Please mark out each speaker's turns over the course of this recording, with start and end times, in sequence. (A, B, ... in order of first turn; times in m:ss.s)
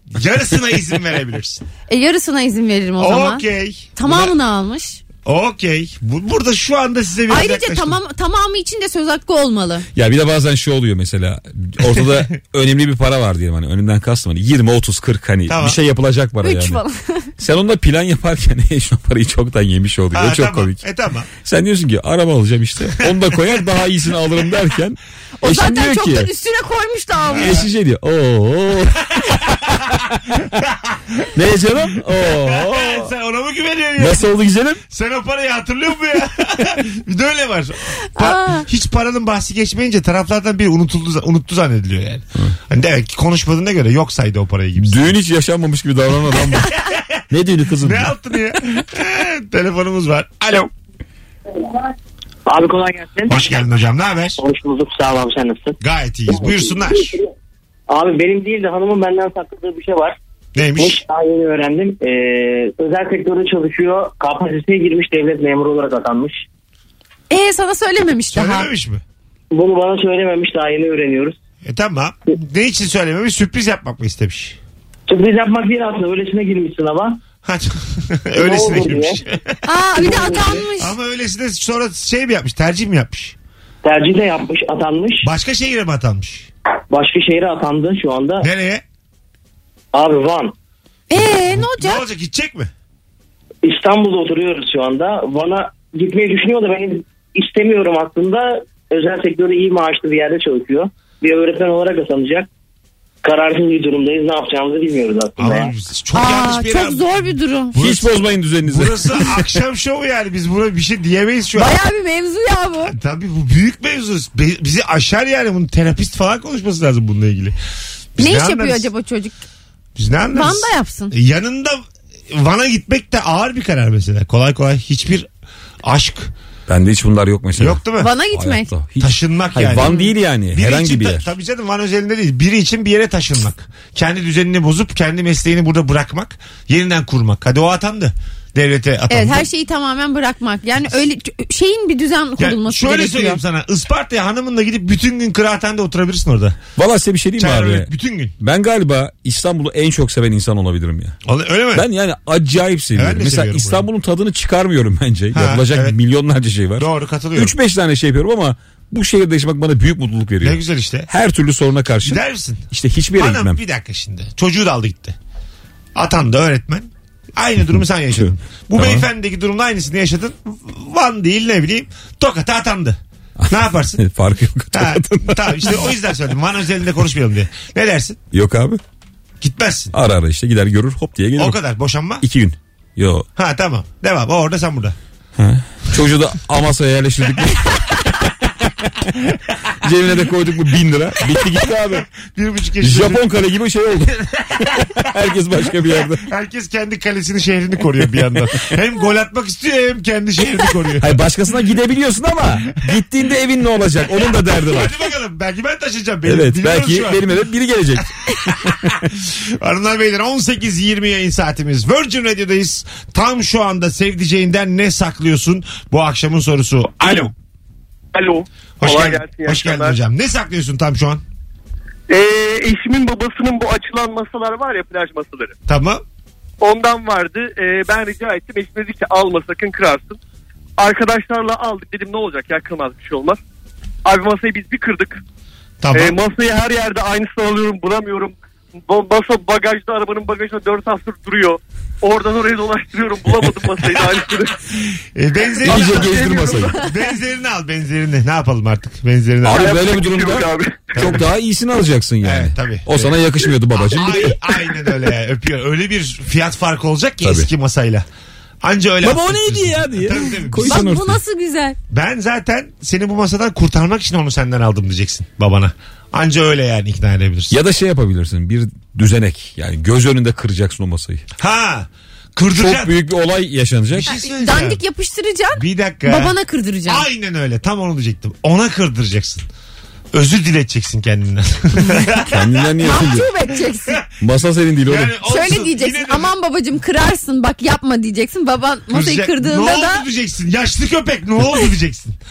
0:00.1-0:01.6 A
0:01.9-0:03.4 B
0:03.0-0:04.4 A
0:04.0-0:05.0 B
0:05.2-0:08.0 A
0:07.3-0:09.9 B
0:10.0-0:16.8 C
0:15.5-0:15.8 A
0:16.4-0:17.3 B
0:17.4-0:20.8 C
0:20.1-0:21.3 A
0:21.4-0:26.3 C
0:23.0-0:23.4 A
0:25.4-0:27.6 B
0:27.3-0:30.5 C
0:30.6-0:31.1 A
0:31.3-0:33.1 C
0:32.1-0:34.3 A
0:34.0-0:34.8 C
0:34.9-0:45.2 A
0:38.2-0:38.7 B
0:44.8-0:48.1 C
0:47.8-0:50.7 A
0:52.5-0:53.4 D
0:53.3-0:54.4 A
0:54.4-0:55.8 D
0:55.8-0:57.1 A
0:56.3-0:57.2 D
0:57.9-1:00.2 D
1:00.6-1:01.0 A
1:00.8-1:06.4 D
1:07.3-1:08.7 B
1:08.3-1:09.0 A
1:09.5-1:11.4 D
1:11.6-1:14.6 A
1:15.1-1:17.2 D
1:17.4-1:23.4 A
1:18.4-1:19.2 D
1:19.6-1:20.9 B
1:23.8-1:25.3 D
1:25.2-1:26.5 A
1:26.9-1:28.5 D
1:28.4-1:28.8 A
1:29.9-1:30.5 D
1:31.1-1:32.0 B
1:31.2-1:32.7 A
1:33.6-1:42.5 D
1:43.2-1:45.7 D
1:45.4-1:51.8 A
1:46.1-1:47.7 B
1:47.8-1:49.5 C
1:51.6-1:53.0 B
1:52.9-1:57.6 A
1:58.2-1:58.9 A
1:58.2-1:59.4 B
2:00.0-2:05.3 A
2:00.3-2:01.1 B
2:05.8-2:06.3 A
2:06.7-2:11.3 C
2:07.6-2:08.1 A
2:08.0-2:08.7 B
2:09.0-2:19.5 A
2:09.8-2:10.1 B
2:19.1-2:23.4 B
2:22.4-2:26.6 A
2:26.8-2:27.9 C
2:27.4-2:28.4 A
2:28.4-2:31.2 C
2:31.2-2:31.9 A
2:31.7-2:43.6 C
2:33.0-2:33.9 A
2:35.3-2:36.0 A
2:36.8-2:37.6 A
2:40.4-2:41.1 A
2:42.0-2:45.2 A
2:46.0-2:53.0 A
2:48.8-2:49.0 C
2:53.4-2:55.9 C
2:53.5-2:54.0 A
2:54.7-2:58.2 A
2:58.3-2:58.8 C
2:59.4-2:59.9 A
2:59.9-3:01.6 C
3:01.4-3:02.2 A
3:02.2-3:03.2 C
3:03.4-3:05.0 A
3:05.4-3:09.2 C
3:09.8-3:12.1 C
3:12.2-3:13.2 A
3:12.8-3:16.3 C
3:16.2-3:21.2 A
3:21.0-3:25.0 C
3:24.5-3:27.2 A
3:26.2-3:29.1 C
3:29.2-3:37.3 A
3:38.1-3:40.0 E
3:38.8-3:41.2 A
3:42.1-3:45.6 E
3:45.7-3:46.0 A
3:46.6-3:50.2 E
3:50.8-3:53.4 E
3:54.0-3:55.2 E
3:55.8-3:56.2 A
3:55.9-3:58.4 E
3:58.9-4:04.6 E
4:04.9-4:09.8 A
4:05.6-4:06.8 E
4:05.6-4:06.8 C
4:09.4-4:14.6 C
4:09.5-4:11.0 E
4:11.0-4:11.3 A
4:12.2-4:18.1 A
4:17.2-4:17.5 C
4:18.6-4:20.9 A
4:19.0-4:21.2 C
4:20.6-4:21.8 B
4:21.9-4:27.6 A
4:27.5-4:31.2 C
4:31.4-4:32.9 A
4:32.6-4:34.1 C
4:33.9-4:34.8 A
4:34.1-4:37.1 B
4:35.6-4:36.4 A
4:36.9-4:39.5 A
4:40.1-4:42.7 A
4:42.3-4:43.3 C
4:42.8-4:44.0 B
4:44.2-4:45.2 C
4:44.9-4:46.3 A
4:45.2-4:50.1 B
4:48.9-4:52.2 A